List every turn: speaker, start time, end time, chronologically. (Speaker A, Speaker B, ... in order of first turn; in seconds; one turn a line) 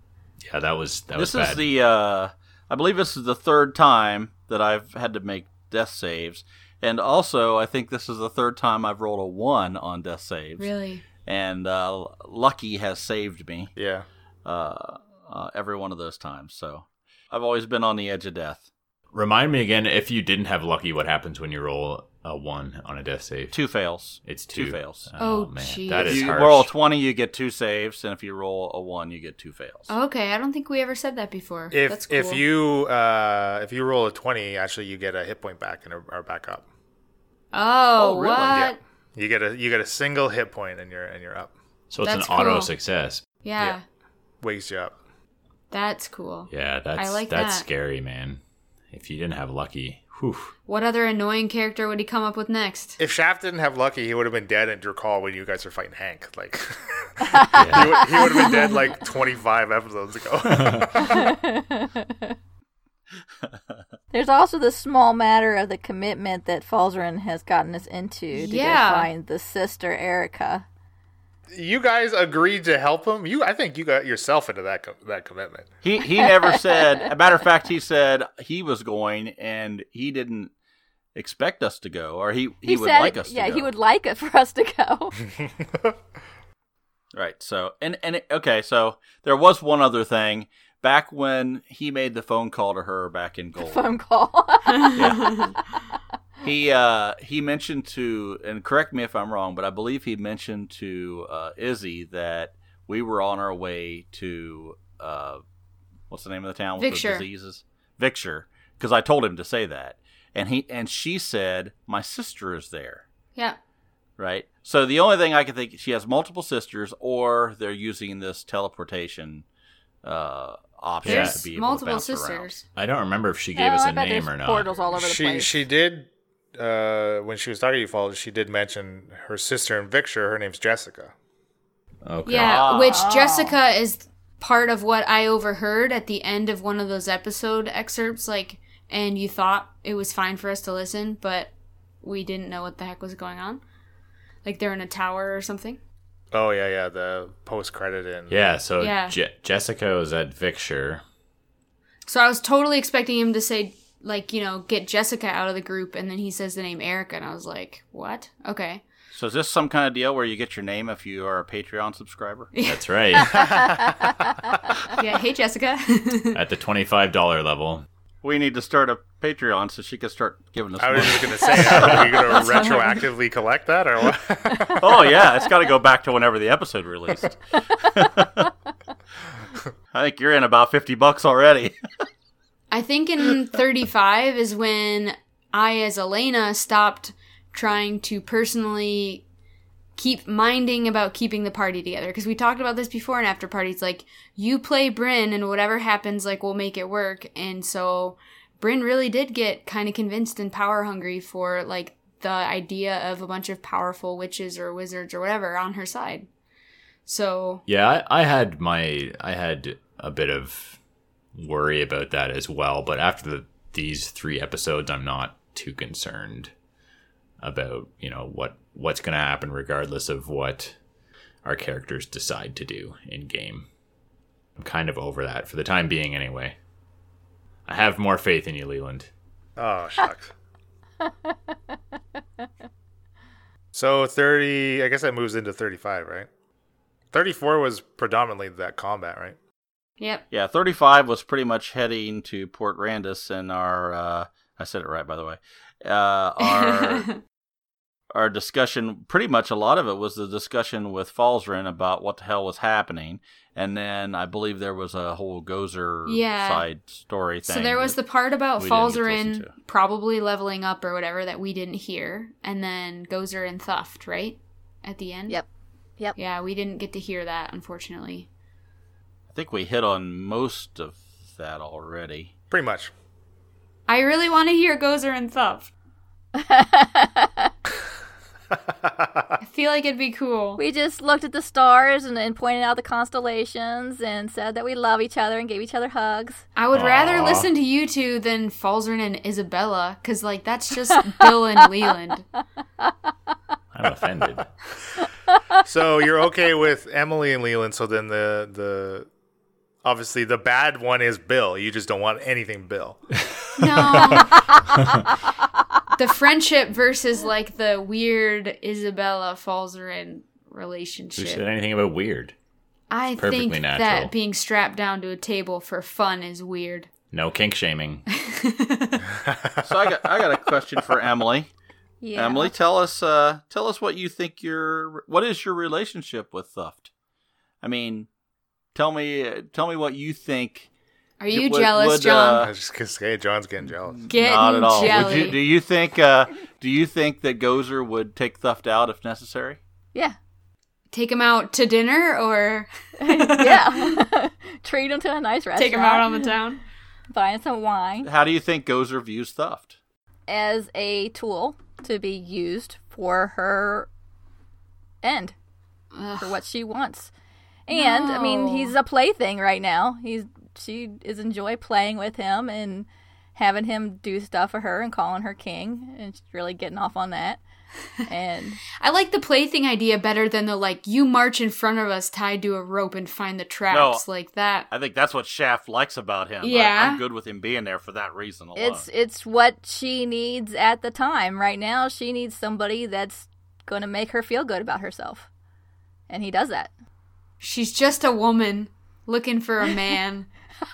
Speaker A: 0.4-1.6
Speaker B: 1.1-13.7
Speaker C: 10.6-11.0
Speaker D: 13.8-14.1
Speaker B: 14.4-18.7
Speaker A: 19.1-23.6
Speaker B: 23.5-25.1
Speaker A: 24.2-26.7
Speaker C: 25.2-26.4
Speaker B: 25.9-29.9
Speaker C: 29.9-32.4
Speaker D: 31.7-36.6
Speaker C: 37.5-38.8
Speaker B: 38.0-38.6
Speaker D: 38.5-41.5
Speaker A: 41.9-43.8
Speaker C: 42.0-42.7
Speaker C: 43.4-43.8
Speaker D: 44.4-45.0
Speaker C: 45.7-47.7
Speaker A: 46.5-48.4
Speaker A: 48.9-50.5
Speaker C: 50.7-53.0
Speaker D: 53.0-61.3
Speaker A: 57.5-58.0
Speaker C: 58.2-58.8
Speaker A: 60.5-60.9
Speaker E: 61.0-62.4
Speaker B: 63.5-63.8
Speaker E: 64.1-70.7
Speaker C: 68.3-69.1
Speaker D: 71.5-75.7
Speaker B: 75.8-80.5
Speaker E: 76.2-76.8
Speaker B: 81.2-83.7
Speaker E: 82.7-85.2
Speaker B: 87.1-93.8
Speaker E: 93.6-95.0
Speaker B: 94.9-95.5
Speaker C: 95.0-95.5
Speaker B: 96.4-105.4
Speaker B: 106.1-113.0
Speaker C: 106.8-107.3
Speaker B: 114.2-119.5
Speaker B: 120.0-122.5
Speaker A: 121.0-121.4
Speaker C: 121.0-122.7
Speaker A: 122.8-124.8
Speaker E: 123.6-125.5
Speaker D: 124.9-131.1
Speaker A: 132.1-132.7
Speaker C: 132.3-143.6
Speaker B: 132.4-133.1
Speaker E: 132.9-133.6
Speaker C: 144.4-145.8
Speaker D: 146.3-148.4
Speaker A: 148.3-151.0
Speaker C: 148.8-149.2
Speaker C: 152.1-158.8
Speaker B: 159.1-162.5
Speaker C: 162.5-162.8
Speaker A: 162.6-163.6
Speaker D: 163.3-163.9
Speaker E: 163.4-164.5
Speaker C: 165.0-166.4
Speaker A: 166.3-167.8
Speaker B: 168.2-172.3
Speaker D: 170.8-175.1
Speaker C: 171.8-173.0
Speaker B: 174.8-178.5
Speaker B: 179.9-181.8
Speaker C: 182.7-189.2
Speaker C: 190.0-206.3
Speaker C: 207.1-207.6
Speaker A: 207.7-210.8
Speaker A: 211.3-216.5
Speaker A: 217.4-220.8
Speaker A: 221.4-223.7
Speaker A: 224.6-226.6
Speaker A: 227.7-229.1
Speaker D: 229.6-230.3
Speaker D: 233.7-236.3
Speaker D: 237.1-239.4
Speaker C: 240.0-240.2
Speaker B: 240.3-247.1
Speaker C: 246.4-247.2
Speaker B: 248.1-258.0
Speaker C: 256.1-256.7
Speaker C: 257.4-265.4
Speaker B: 258.6-259.5
Speaker C: 266.2-268.3
Speaker B: 269.3-272.3
Speaker D: 272.5-272.9
Speaker C: 273.9-275.7
Speaker E: 276.4-277.5
Speaker D: 278.7-279.4
Speaker C: 279.4-280.6
Speaker E: 280.6-286.4
Speaker C: 286.6-292.2
Speaker A: 286.7-287.5
Speaker A: 293.7-294.5
Speaker D: 295.6-299.1
Speaker D: 299.8-303.1
Speaker C: 303.6-304.6
Speaker C: 306.0-311.4
Speaker A: 311.1-312.3
Speaker C: 312.9-316.9
Speaker A: 313.2-314.1
Speaker A: 317.1-318.1
Speaker C: 318.1-319.1
Speaker D: 319.2-320.0
Speaker B: 319.6-321.5
Speaker E: 322.0-322.5
Speaker B: 322.1-326.9
Speaker B: 327.6-328.1
Speaker B: 328.8-330.7
Speaker C: 331.2-332.5
Speaker B: 331.3-332.5
Speaker D: 332.4-334.0
Speaker B: 334.1-339.6
Speaker C: 334.1-335.4
Speaker A: 334.8-335.2
Speaker C: 340.9-344.0
Speaker E: 343.1-346.3
Speaker C: 345.6-346.6
Speaker E: 347.1-348.1
Speaker B: 348.0-349.7
Speaker E: 350.3-353.9
Speaker E: 355.0-355.4
Speaker C: 355.9-356.4
Speaker E: 356.2-357.1
Speaker E: 357.7-367.4
Speaker C: 357.7-358.7
Speaker E: 368.1-368.6
Speaker C: 368.8-374.7
Speaker B: 373.7-374.0
Speaker B: 374.7-378.9
Speaker C: 376.4-377.0
Speaker E: 378.6-385.3
Speaker E: 386.1-386.7
Speaker C: 387.4-390.3